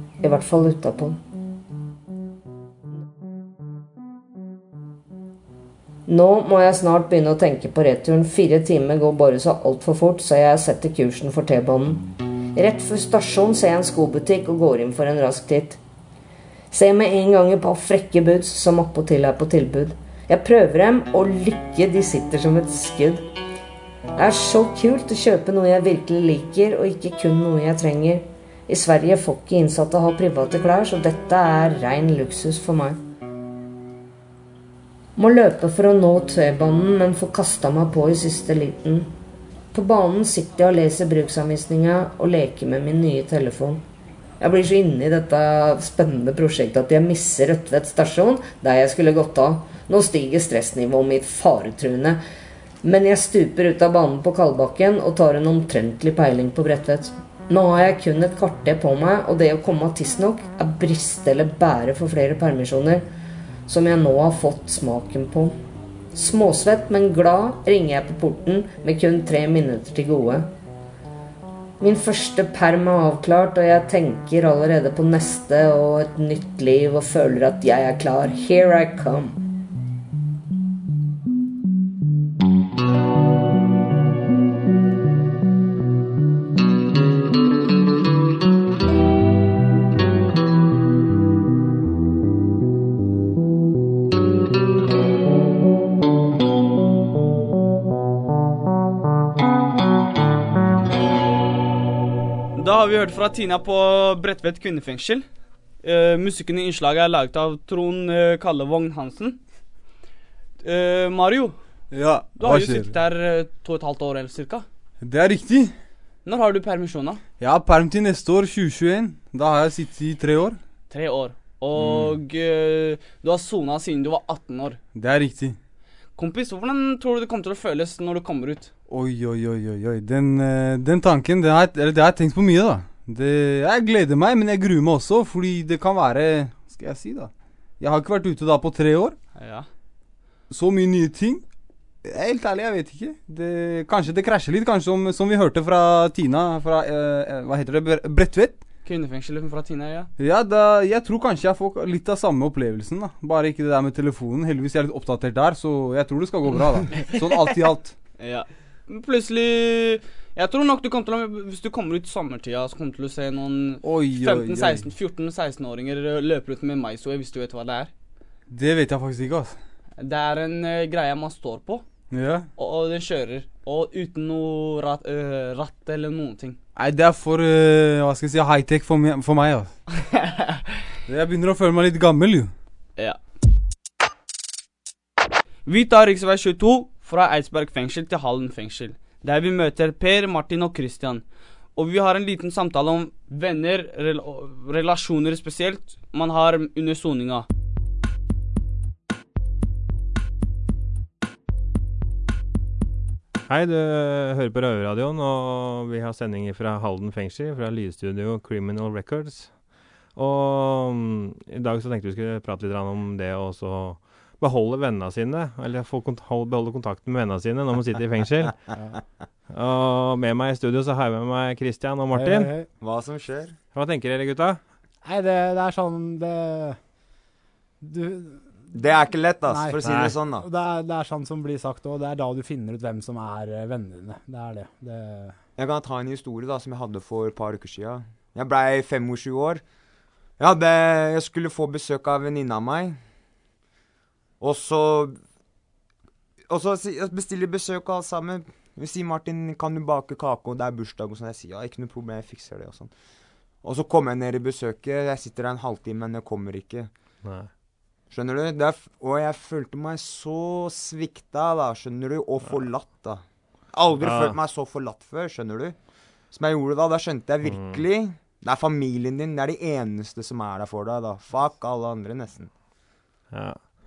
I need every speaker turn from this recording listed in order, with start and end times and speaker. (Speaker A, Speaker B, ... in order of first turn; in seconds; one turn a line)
Speaker A: 0.2-1.2
Speaker A: 6.1-15.8
Speaker A: 16.7-23.2
Speaker A: 24.2-33.0
Speaker A: 35.2-39.1
Speaker A: 39.7-43.8
Speaker A: 44.4-52.2
Speaker A: 52.8-63.0
Speaker A: 63.7-65.5
Speaker A: 66.1-70.5
Speaker A: 71.8-79.4
Speaker B: 102.6-105.2
Speaker B: 105.8-109.4
Speaker B: 110.6-111.6
Speaker C: 111.9-112.9
Speaker B: 112.3-114.7
Speaker C: 115.0-115.8
Speaker B: 116.2-117.2
Speaker C: 117.4-120.6
Speaker B: 120.9-124.8
Speaker C: 121.8-122.2
Speaker C: 125.0-125.6
Speaker B: 126.2-128.7
Speaker C: 128.9-139.2
Speaker B: 139.4-139.7
Speaker C: 140.5-141.4
Speaker C: 142.0-148.6
Speaker B: 148.8-150.1
Speaker C: 150.2-157.9
Speaker B: 158.2-167.9
Speaker C: 163.8-164.9
Speaker C: 168.5-169.6
Speaker B: 170.0-171.8
Speaker C: 172.1-172.5
Speaker B: 172.6-176.6
Speaker C: 176.8-179.7
Speaker C: 181.1-182.5
Speaker B: 185.7-191.2
Speaker B: 191.8-197.5
Speaker D: 203.5-209.6
Speaker D: 210.2-218.7
Speaker D: 219.5-222.5
Speaker E: 222.1-222.7
Speaker F: 222.7-223.6
Speaker D: 223.7-224.6
Speaker E: 225.0-226.8
Speaker E: 227.8-228.6
Speaker F: 228.7-230.5
Speaker E: 229.5-235.4
Speaker F: 235.6-239.6
Speaker F: 240.4-243.0
Speaker F: 244.4-245.2
Speaker F: 246.5-252.9
Speaker F: 253.6-256.9
Speaker D: 257.2-257.5
Speaker F: 258.1-265.8
Speaker D: 264.0-264.4
Speaker F: 266.3-272.5
Speaker D: 267.5-267.8
Speaker D: 273.3-273.6